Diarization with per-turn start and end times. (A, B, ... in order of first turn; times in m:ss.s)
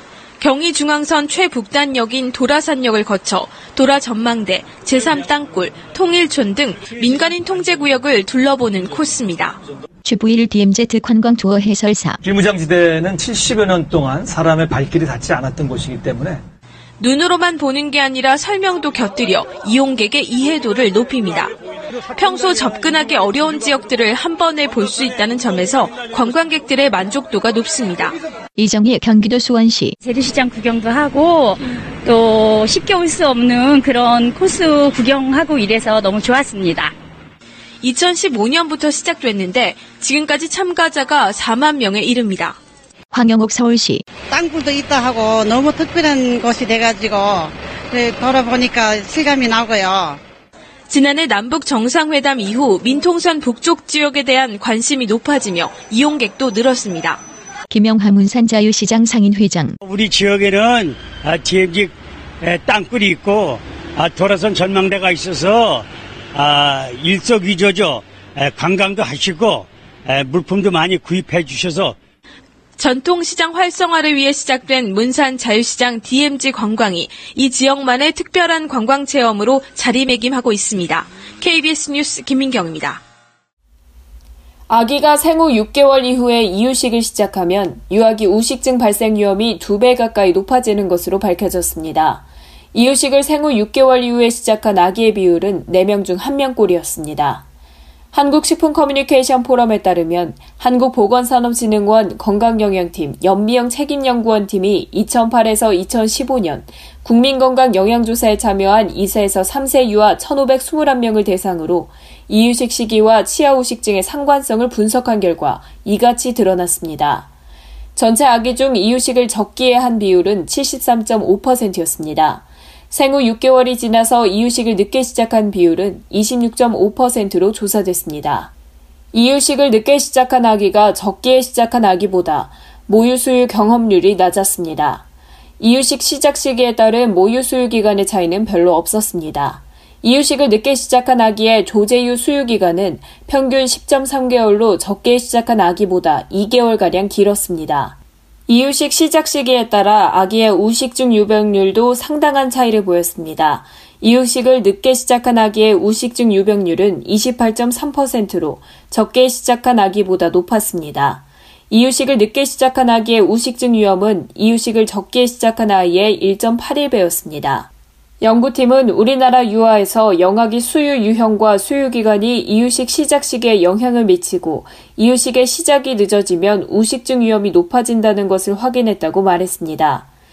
0:00.4-0:09.6 A
0:10.0-0:12.2 B
0:12.2-0:16.4 C
0:17.0-0:21.5 A
0:22.2-0:28.2 A
0:28.6-0:30.0 B
0:30.0-0:36.9 D
0:37.8-0:42.6 A
0:43.1-0:44.0 B
0:44.3-0:50.2 E
0:50.9-0:57.2 A
0:57.7-0:59.8 B
0:59.8-1:12.0 F
1:12.8-1:23.0 A
1:24.7-1:37.4 G
1:38.1-1:57.3 G
1:58.0-2:08.5 G
2:09.1-2:15.0 G
2:15.6-2:28.0 G
2:28.5-2:47.7 G
2:48.2-3:00.1 G